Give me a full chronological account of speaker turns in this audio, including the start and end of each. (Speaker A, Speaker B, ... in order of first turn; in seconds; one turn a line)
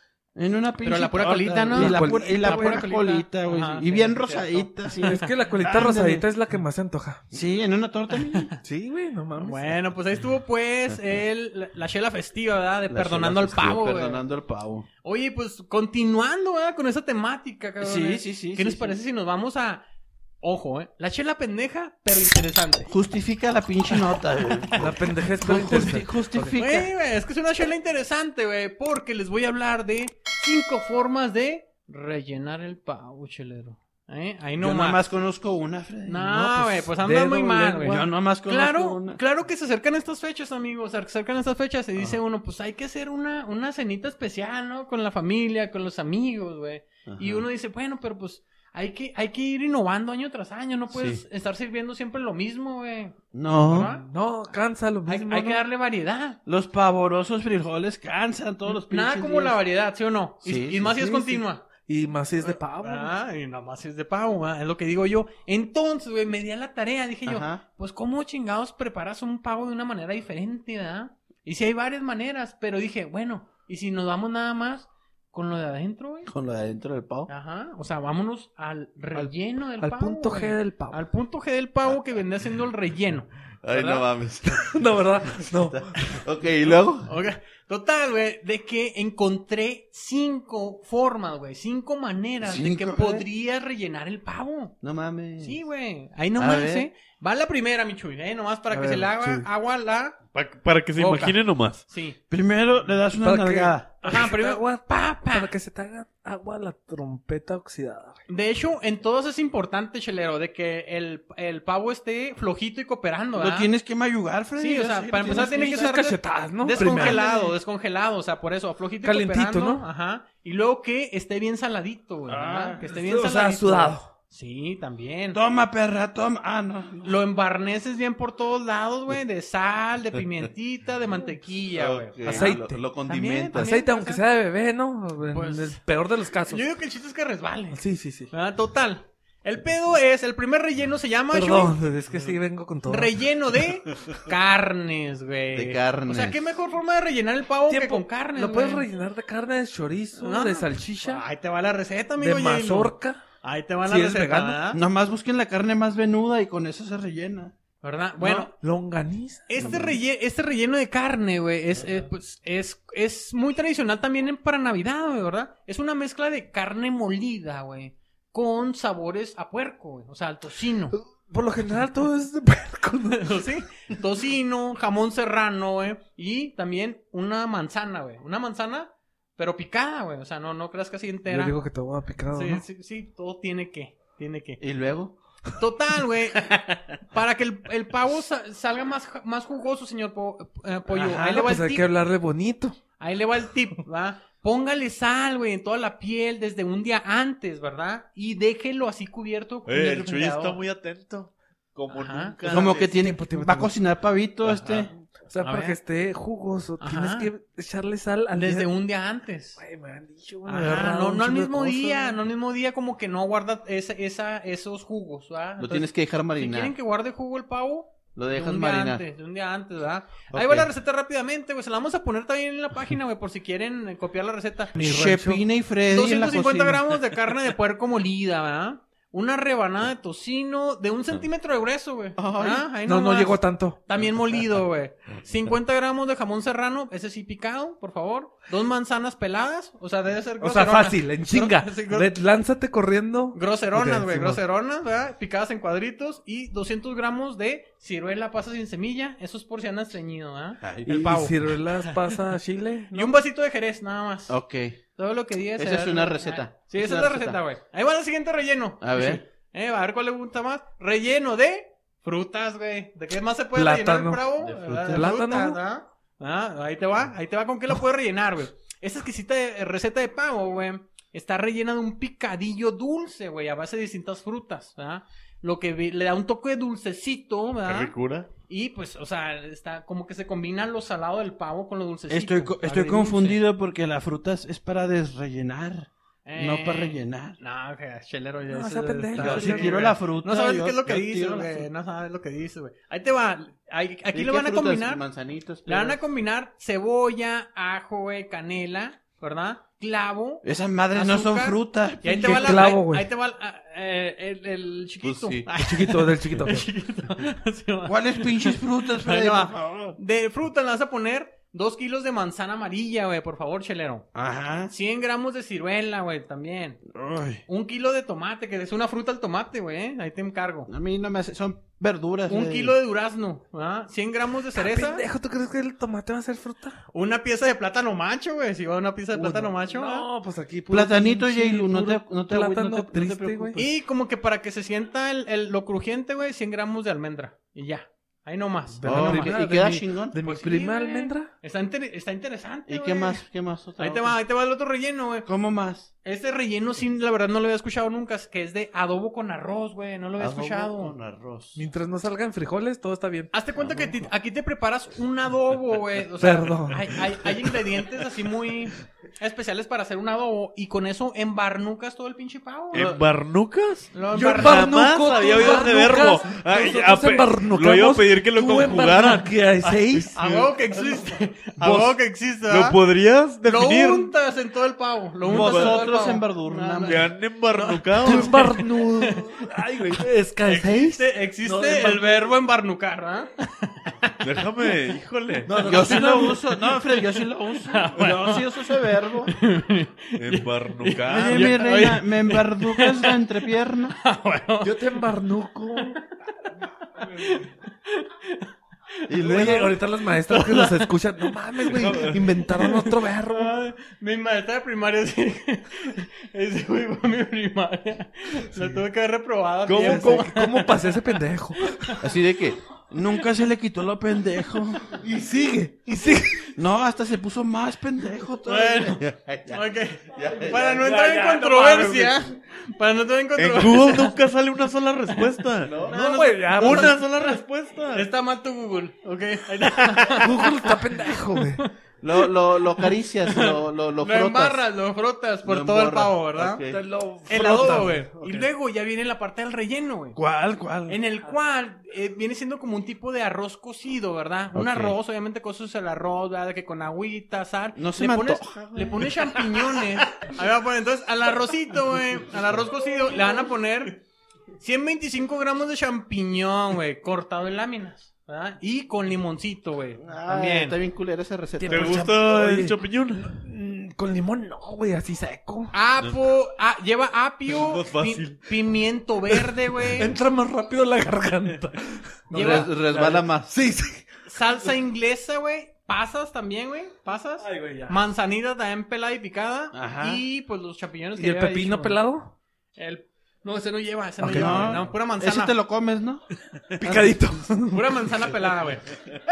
Speaker A: 0.3-6.2
Speaker B: 0.8-5.3
Speaker C: 1.7-2.9
Speaker C: 5.0-7.2
Speaker A: 7.3-8.5
Speaker B: 8.1-8.6
Speaker C: 8.6-9.7
Speaker B: 9.4-14.2
Speaker A: 12.9-14.9
Speaker B: 15.0-19.8
Speaker A: 17.8-19.0
Speaker B: 20.4-22.9
Speaker A: 22.9-26.9
Speaker C: 24.7-26.6
Speaker B: 26.6-35.0
Speaker A: 34.6-36.7
Speaker B: 36.0-54.1
Speaker C: 37.0-38.0
Speaker A: 37.8-39.2
Speaker A: 47.0-47.5
Speaker A: 50.9-51.2
Speaker A: 53.3-53.9
Speaker C: 53.8-55.6
Speaker B: 55.0-56.4
Speaker A: 56.5-59.6
Speaker B: 58.6-61.7
Speaker A: 60.4-61.4
Speaker C: 61.8-63.1
Speaker B: 62.4-76.3
Speaker A: 67.2-67.6
Speaker A: 76.3-77.3
Speaker B: 77.3-84.1
Speaker C: 79.8-81.0
Speaker A: 83.6-87.1
Speaker C: 84.5-86.0
Speaker B: 87.0-94.8
Speaker A: 92.4-93.3
Speaker A: 94.8-95.6
Speaker B: 95.4-100.2
Speaker A: 96.4-96.9
Speaker C: 98.7-99.5
Speaker D: 100.3-101.8
Speaker B: 101.0-102.2
Speaker A: 102.3-104.0
Speaker C: 103.2-108.2
Speaker B: 104.0-105.5
Speaker B: 108.3-113.7
Speaker A: 113.3-115.9
Speaker B: 114.5-125.4
Speaker C: 115.3-117.2
Speaker A: 116.7-117.5
Speaker C: 119.0-119.8
Speaker A: 122.3-122.9
Speaker C: 122.9-124.1
Speaker A: 125.3-127.2
Speaker B: 127.0-134.2
Speaker A: 131.7-133.7
Speaker C: 132.2-132.8
Speaker C: 133.5-136.6
Speaker B: 135.3-135.8
Speaker B: 136.4-141.8
Speaker C: 137.7-138.3
Speaker C: 141.3-143.2
Speaker B: 142.8-148.9
Speaker A: 145.5-146.4
Speaker C: 147.7-151.2
Speaker B: 150.2-154.8
Speaker C: 152.2-153.2
Speaker C: 153.8-154.7
Speaker A: 154.7-157.5
Speaker B: 157.8-158.5
Speaker C: 158.3-159.8
Speaker B: 159.5-170.9
Speaker A: 159.6-159.9
Speaker C: 170.9-173.4
Speaker B: 173.1-181.6
Speaker C: 181.3-182.6
Speaker B: 182.3-184.6
Speaker A: 184.6-185.2
Speaker B: 185.6-191.9
Speaker A: 190.9-191.5
Speaker C: 191.2-192.8
Speaker B: 193.0-200.6
Speaker D: 199.7-202.9
Speaker B: 201.9-202.3
Speaker A: 202.4-204.9
Speaker C: 202.8-203.7
Speaker D: 204.4-204.9
Speaker C: 205.1-208.7
Speaker B: 205.4-205.8
Speaker B: 206.8-207.3
Speaker B: 208.3-209.6
Speaker C: 209.6-212.2
Speaker B: 210.4-224.8
Speaker A: 215.6-216.7
Speaker A: 218.1-219.0
Speaker A: 220.3-220.7
Speaker C: 224.8-225.4
Speaker A: 224.8-226.8
Speaker B: 225.9-242.1
Speaker A: 232.2-232.7
Speaker C: 232.8-233.8
Speaker C: 240.4-244.4
Speaker B: 243.3-251.9
Speaker A: 250.6-251.1
Speaker C: 250.9-253.1
Speaker B: 252.9-254.3
Speaker A: 254.3-254.8
Speaker B: 254.9-277.9
Speaker A: 255.6-257.4
Speaker A: 258.8-259.2
Speaker C: 263.5-264.3
Speaker A: 264.4-265.1
Speaker C: 264.9-265.6
Speaker D: 277.6-278.3
Speaker B: 278.5-283.4
Speaker A: 282.1-287.4
Speaker B: 286.2-295.0
Speaker C: 288.5-289.9
Speaker A: 289.2-291.7
Speaker A: 294.1-296.0
Speaker B: 295.6-314.1
Speaker A: 300.4-302.6
Speaker C: 302.1-303.1
Speaker A: 305.0-305.5
Speaker C: 305.5-306.7
Speaker A: 307.8-310.0
Speaker A: 314.1-314.7
Speaker B: 314.7-316.8
Speaker A: 316.9-317.4
Speaker B: 317.5-320.7
Speaker A: 320.7-322.7
Speaker B: 322.3-325.0
Speaker C: 324.5-326.8
Speaker B: 326.9-330.1
Speaker C: 329.1-333.7
Speaker A: 330.7-333.6
Speaker B: 333.6-339.4
Speaker C: 338.8-341.3
Speaker A: 338.8-340.8
Speaker B: 340.2-343.2
Speaker A: 342.7-344.2
Speaker B: 343.8-345.3
Speaker A: 345.2-345.9
Speaker B: 346.0-350.9
Speaker A: 350.2-351.6
Speaker C: 351.6-353.9
Speaker B: 353.3-362.9
Speaker C: 356.2-357.7
Speaker A: 362.7-363.0
Speaker D: 362.7-369.3
Speaker B: 363.9-365.7
Speaker C: 364.1-370.2
Speaker D: 369.9-370.4
Speaker B: 370.1-372.8
Speaker A: 370.2-371.0
Speaker D: 372.5-374.1
Speaker B: 373.4-379.4
Speaker A: 375.2-377.1
Speaker D: 375.3-375.8
Speaker D: 376.8-378.4
Speaker C: 378.0-382.3
Speaker B: 380.4-384.4
Speaker D: 384.2-385.5
Speaker C: 385.4-386.4
Speaker B: 385.5-388.7
Speaker A: 385.6-389.3
Speaker B: 389.3-393.2
Speaker D: 390.2-391.6
Speaker A: 391.0-394.0
Speaker B: 394.0-395.0
Speaker C: 394.6-396.0
Speaker B: 395.8-396.3
Speaker B: 396.9-398.5
Speaker B: 399.1-411.0
Speaker A: 399.1-399.7
Speaker C: 399.2-403.5
Speaker D: 401.8-402.2
Speaker D: 409.7-410.3
Speaker C: 409.8-411.9
Speaker B: 411.6-412.0
Speaker A: 412.0-415.1
Speaker C: 415.0-416.6
Speaker A: 416.6-421.0
Speaker B: 418.4-424.1
Speaker C: 420.9-422.1
Speaker D: 423.4-428.1
Speaker A: 425.6-426.9
Speaker C: 425.9-427.0
Speaker B: 426.6-427.4
Speaker B: 427.9-436.6
Speaker C: 430.2-431.6
Speaker A: 432.0-434.6
Speaker A: 435.4-436.8
Speaker C: 436.6-438.4
Speaker B: 437.3-440.2
Speaker A: 440.2-441.0
Speaker B: 440.9-454.0
Speaker A: 444.5-444.9
Speaker A: 447.8-449.9
Speaker B: 454.6-460.8
Speaker A: 460.0-462.1
Speaker C: 461.6-465.7
Speaker D: 461.7-463.4
Speaker B: 465.7-470.1
Speaker D: 467.5-468.4
Speaker C: 469.9-474.1
Speaker B: 472.3-472.7
Speaker A: 472.3-473.5
Speaker B: 474.2-482.0
Speaker C: 477.4-478.0
Speaker A: 479.7-480.2
Speaker C: 481.1-482.3
Speaker B: 482.7-485.6
Speaker C: 484.2-484.8
Speaker A: 484.3-486.2
Speaker C: 486.8-488.0
Speaker A: 486.8-487.2
Speaker B: 487.7-488.9